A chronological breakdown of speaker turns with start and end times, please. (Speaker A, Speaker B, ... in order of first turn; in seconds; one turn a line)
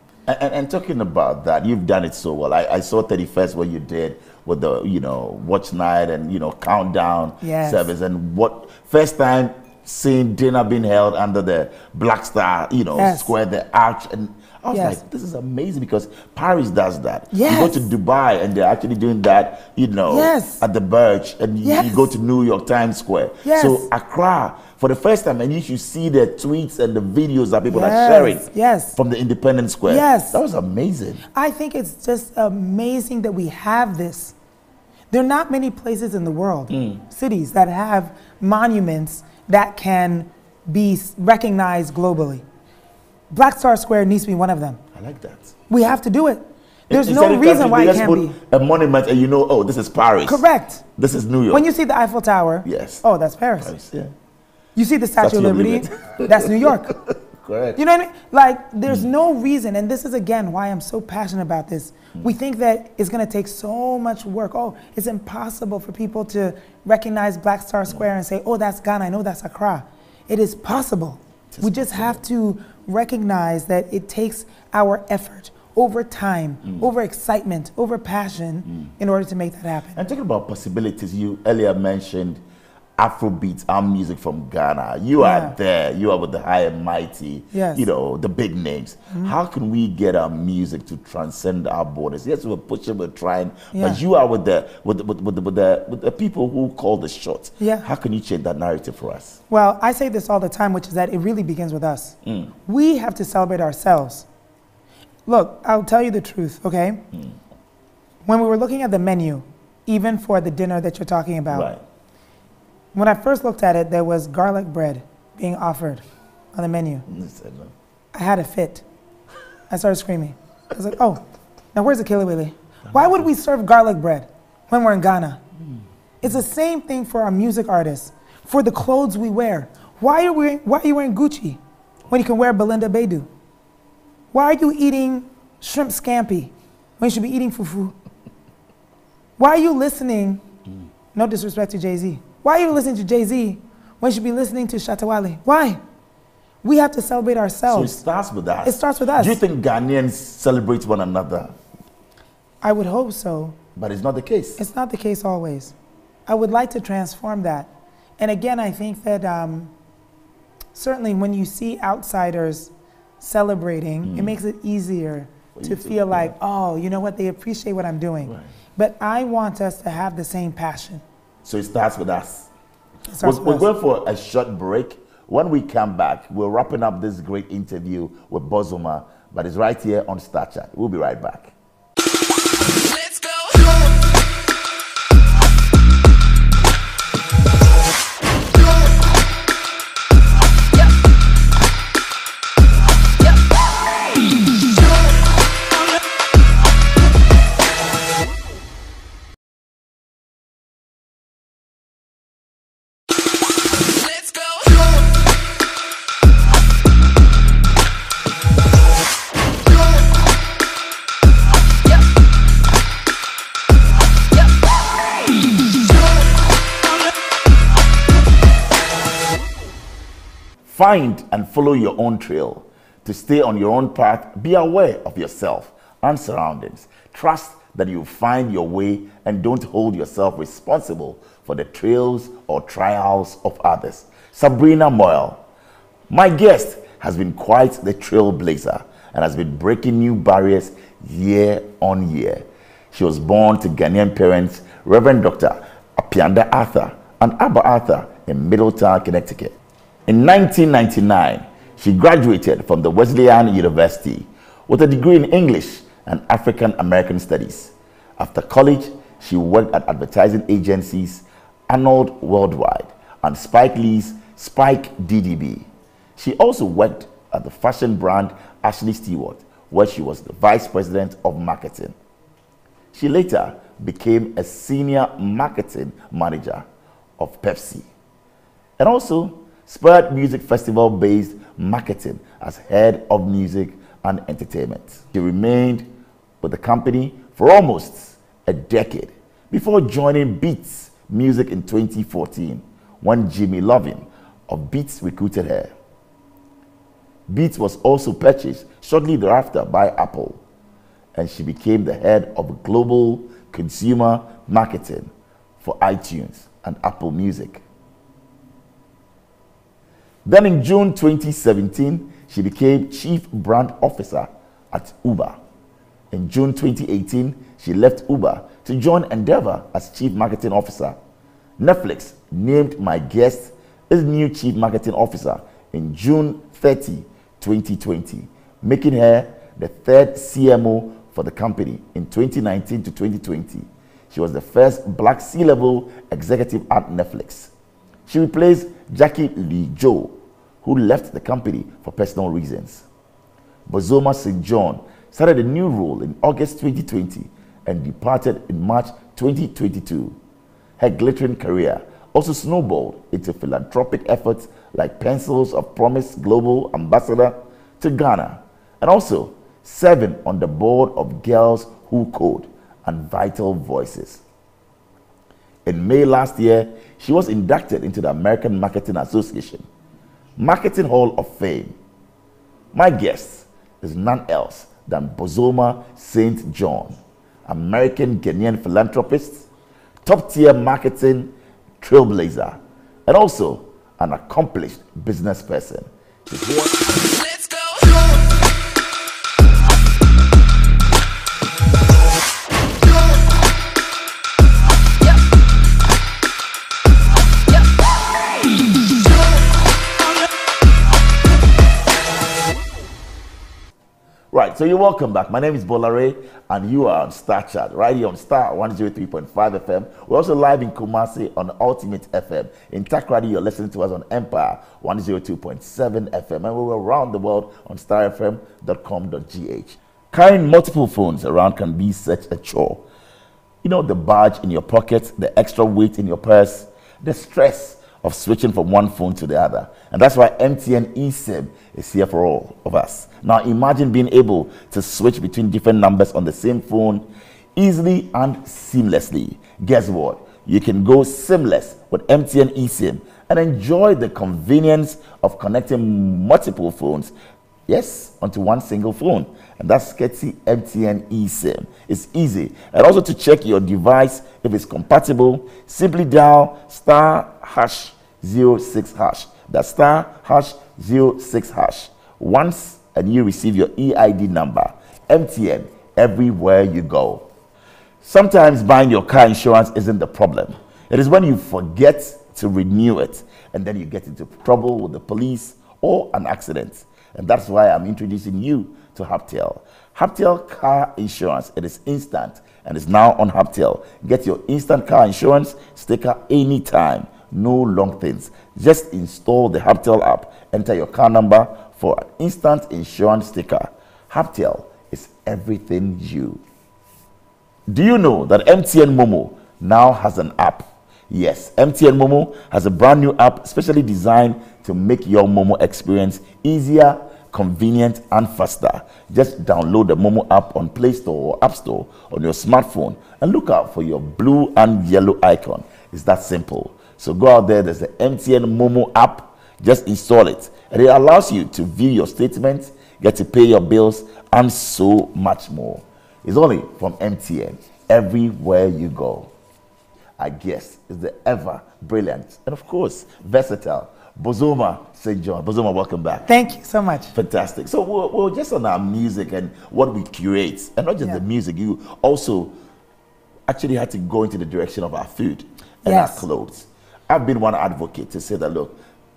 Speaker A: 0.3-31.2
Speaker B: 7.4-7.9
Speaker B: 12.9-13.3
Speaker B: 14.7-15.0
Speaker B: 17.3-17.9
Speaker B: 20.1-20.6
Speaker B: 21.6-22.1
Speaker B: 23.4-23.9
Speaker B: 27.7-29.0
Speaker B: 29.9-30.4
Speaker B: 31.3-34.4
Speaker B: 35.1-42.4
Speaker A: 36.7-37.0
Speaker B: 43.3-44.8
Speaker A: 45.0-45.5
Speaker B: 45.7-48.4
Speaker A: 46.9-50.4
Speaker B: 50.2-50.8
Speaker A: 51.0-51.7
Speaker B: 51.5-53.7
Speaker A: 52.6-53.0
Speaker A: 53.6-54.1
Speaker B: 54.8-56.9
Speaker A: 55.2-57.8
Speaker B: 57.8-80.0
Speaker A: 71.5-72.2
Speaker A: 80.0-82.4
Speaker A: 83.0-99.4
Speaker B: 85.2-85.6
Speaker B: 87.5-87.9
Speaker B: 93.7-94.0
Speaker B: 97.6-97.9
Speaker B: 99.5-104.3
Speaker A: 102.2-102.5
Speaker B: 105.3-107.0
Speaker B: 108.3-111.7
Speaker A: 111.5-111.8
Speaker B: 112.9-116.0
Speaker B: 116.5-117.0
Speaker A: 117.1-117.7
Speaker B: 118.1-118.8
Speaker B: 119.7-121.2
Speaker B: 121.7-125.4
Speaker B: 126.2-133.3
Speaker B: 134.3-137.9
Speaker B: 139.4-140.4
Speaker B: 141.1-145.8
Speaker B: 146.6-148.0
Speaker A: 147.7-151.6
Speaker B: 148.6-149.4
Speaker B: 152.6-153.6
Speaker A: 153.8-154.6
Speaker B: 154.6-155.7
Speaker B: 156.3-159.7
Speaker B: 160.8-171.0
Speaker A: 164.0-164.4
Speaker A: 165.6-166.3
Speaker A: 171.4-172.5
Speaker B: 173.1-173.7
Speaker A: 173.2-181.5
Speaker A: 220.7-235.4
Speaker A: 236.1-249.6
Speaker A: 250.1-271.9
Speaker A: 272.9-276.6
Speaker A: 277.2-277.9
Speaker A: 278.8-285.9
Speaker A: 286.4-295.7
Speaker A: 297.3-300.4
Speaker A: 301.1-307.6
Speaker A: 310.2-315.4
Speaker A: 316.1-321.0
Speaker A: 321.6-337.5
Speaker A: 338.1-342.9
Speaker A: 343.7-350.2
Speaker A: 350.8-364.2
Speaker A: 365.7-369.7
Speaker A: 370.4-371.8
Speaker A: 372.7-379.5
Speaker A: 380.1-386.8
Speaker A: 404.3-422.8
Speaker A: 423.6-437.1
Speaker A: 437.6-447.1
Speaker A: 447.7-467.3
Speaker A: 468.0-496.4
Speaker A: 497.7-529.3
Speaker A: 530.2-536.3
Speaker B: 536.3-537.1
Speaker A: 537.1-542.5
Speaker A: 543.5-548.8
Speaker B: 545.9-546.2